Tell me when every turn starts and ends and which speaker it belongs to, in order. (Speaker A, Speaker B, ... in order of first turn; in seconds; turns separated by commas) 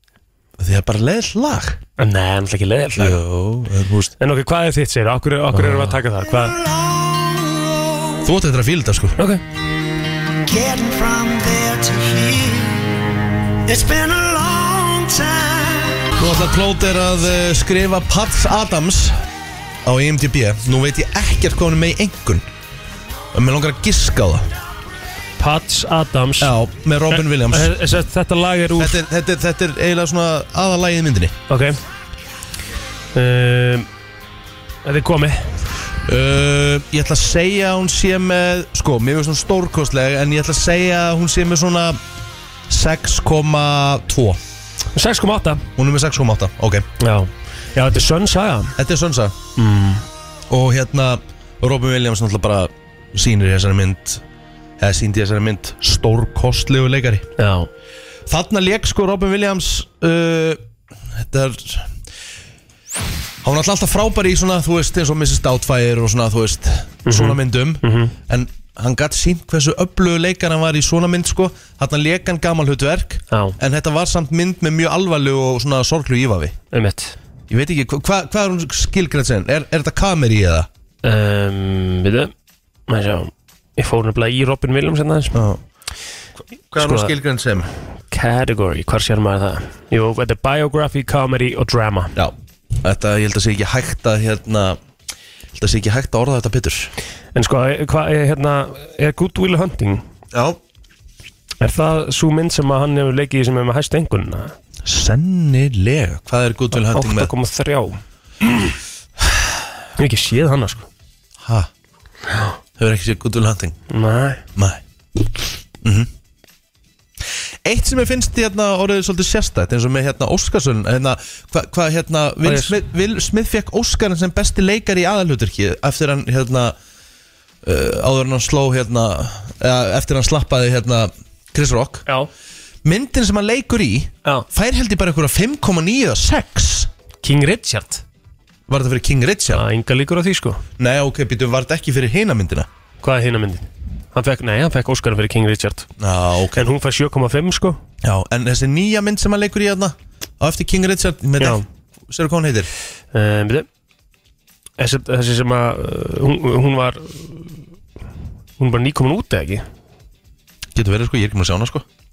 Speaker A: 0.6-1.8, Speaker B: 2.0-3.2, Speaker A: 3.0-4.1, Speaker B: 4.2-6.6, Speaker A: 5.5-6.0, Speaker C: 6.3-8.3, Speaker A: 8.2-9.2, Speaker C: 10.4-13.0, Speaker C: 13.7-16.1, Speaker A: 16.2-19.2, Speaker A: 19.8-22.4, Speaker A: 23.3-24.5, Speaker B: 25.4-26.5, Speaker A: 26.4-27.7, Speaker B: 27.1-29.0, Speaker A: 28.8-31.4, Speaker B: 31.5-31.8, Speaker B: 33.1-33.9, Speaker B: 34.9-35.5, Speaker A: 36.0-42.0, Speaker A: 42.7-44.4, Speaker B: 44.9-45.7, Speaker A: 45.8-46.9, Speaker B: 47.0-48.7, Speaker A: 48.8-49.4, Speaker B: 49.6-50.0, Speaker A: 50.5-54.2, Speaker A: 54.8-57.3, Speaker B: 57.4-57.7, Speaker A: 58.3-61.9, Speaker A: 63.4-76.6, Speaker B: 67.1-68.1, Speaker B: 73.3-73.6, Speaker B: 76.7-77.2, Speaker A: 77.5-80.7, Speaker B: 81.0-82.3, Speaker B: 82.9-85.4, Speaker A: 85.3-85.6, Speaker A: 86.7-87.7, Speaker B: 86.8-87.1, Speaker B: 88.1-92.1, Speaker A: 92.2-94.8, Speaker A: 95.5-96.9, Speaker B: 97.3-100.0, Speaker A: 100.3-100.6, Speaker B: 101.6-104.5, Speaker A: 104.8-107.3, Speaker B: 106.7-108.0, Speaker B: 110.0-110.9, Speaker A: 111.4-111.7, Speaker A: 112.8-113.8, Speaker B: 113.9-114.4, Speaker A: 114.6-114.8, Speaker A: 115.8-116.1, Speaker A: 117.7-126.8, Speaker B: 122.4-122.8, Speaker A: 127.6-132.1, Speaker A: 132.8-136.9, Speaker B: 137.2-138.0, Speaker A: 138.7-139.6, Speaker B: 139.5-140.6, Speaker A: 140.8-142.7, Speaker B: 143.0-145.9, Speaker A: 146.0-146.7, Speaker B: 146.6-147.8, Speaker A: 148.0-152.7, Speaker B: 151.4-151.6, Speaker B: 153.1-153.7, Speaker B: 154.8-157.5, Speaker B: 158.6-159.7, Speaker A: 160.7-161.8